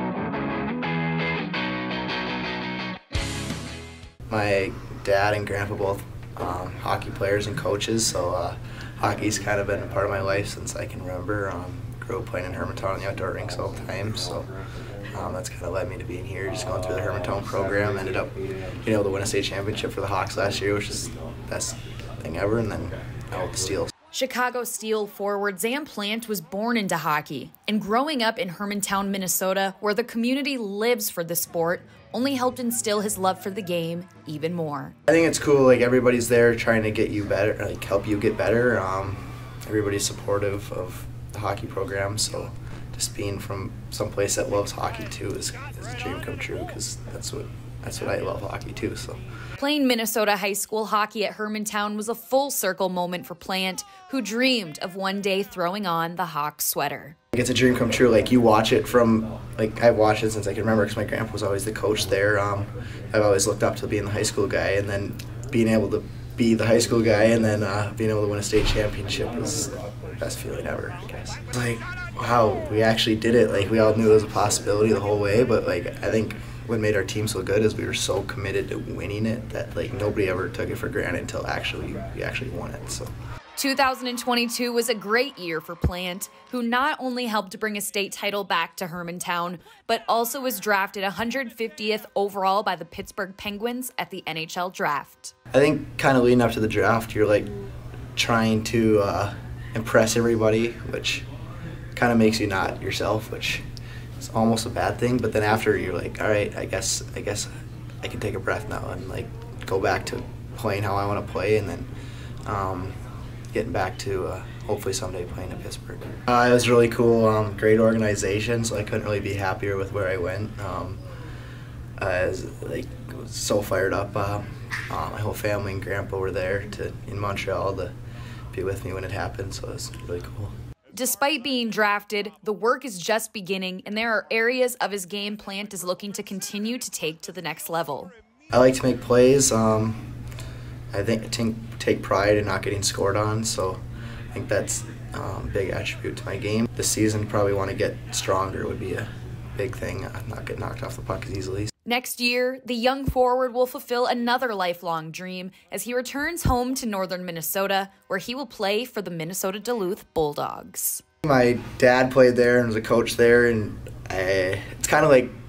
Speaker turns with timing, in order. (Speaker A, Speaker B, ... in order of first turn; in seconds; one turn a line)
Speaker A: 4.3-23.9
Speaker B: 24.1-35.0
Speaker A: 35.1-49.2
Speaker B: 49.6-57.2
Speaker A: 57.3-83.1
Speaker B: 83.6-95.3
Speaker A: 95.5-97.5
Speaker A: 98.2-101.3
Speaker A: 102.0-103.6
Speaker A: 104.2-107.5
Speaker A: 108.0-111.9
Speaker A: 112.5-113.0
Speaker A: 113.5-121.0
Speaker A: 122.0-127.9
Speaker A: 128.5-130.5
Speaker B: 130.9-138.1
Speaker A: 138.5-140.1
Speaker A: 140.9-143.8
Speaker A: 144.3-151.7
Speaker B: 151.8-161.0
Speaker A: 161.2-165.3